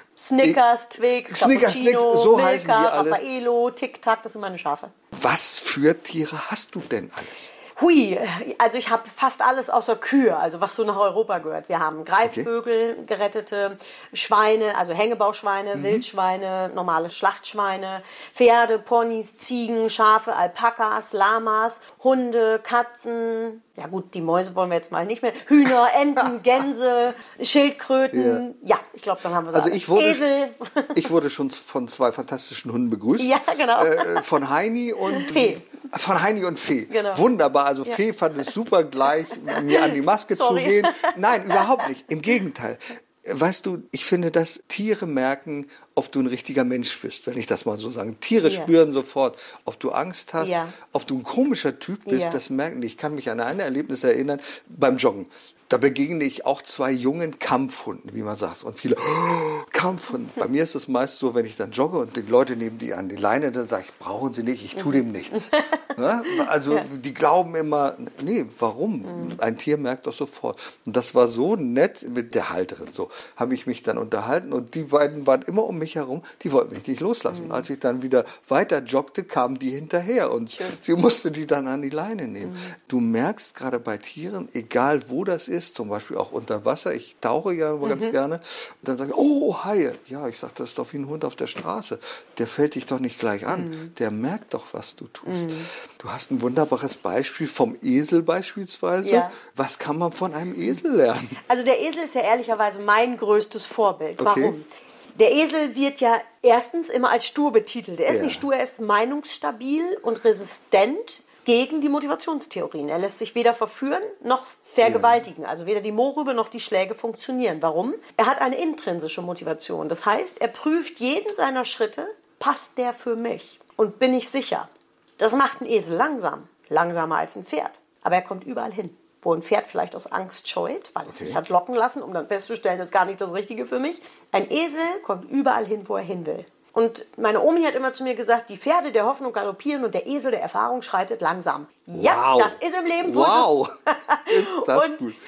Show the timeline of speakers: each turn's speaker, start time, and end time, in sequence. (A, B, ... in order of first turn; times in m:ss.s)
0:00.2-0:04.9 A
0:01.3-0:03.2 B
0:05.1-0:07.5 B
0:07.8-0:31.1 A
0:12.2-0:12.5 B
0:15.7-0:16.0 B
0:28.1-0:28.4 B
0:29.5-0:30.2 B
0:30.9-1:41.4 B
0:33.2-0:34.2 A
0:35.1-0:35.6 A
0:36.9-0:37.2 A
0:39.5-0:41.8 A
0:48.4-0:48.7 A
0:50.4-0:50.8 A
0:52.1-0:52.4 A
1:04.8-1:06.9 A
1:09.1-1:09.4 A
1:17.3-1:17.7 A
1:22.4-1:22.7 A
1:27.8-1:28.2 A
1:33.5-1:33.9 A
1:35.3-1:35.7 A
1:39.0-1:39.4 A
1:41.5-2:25.0 A
1:44.2-1:44.6 B
1:48.1-1:48.5 B
1:54.8-1:55.2 B
2:11.1-2:11.4 B
2:21.9-2:25.2 B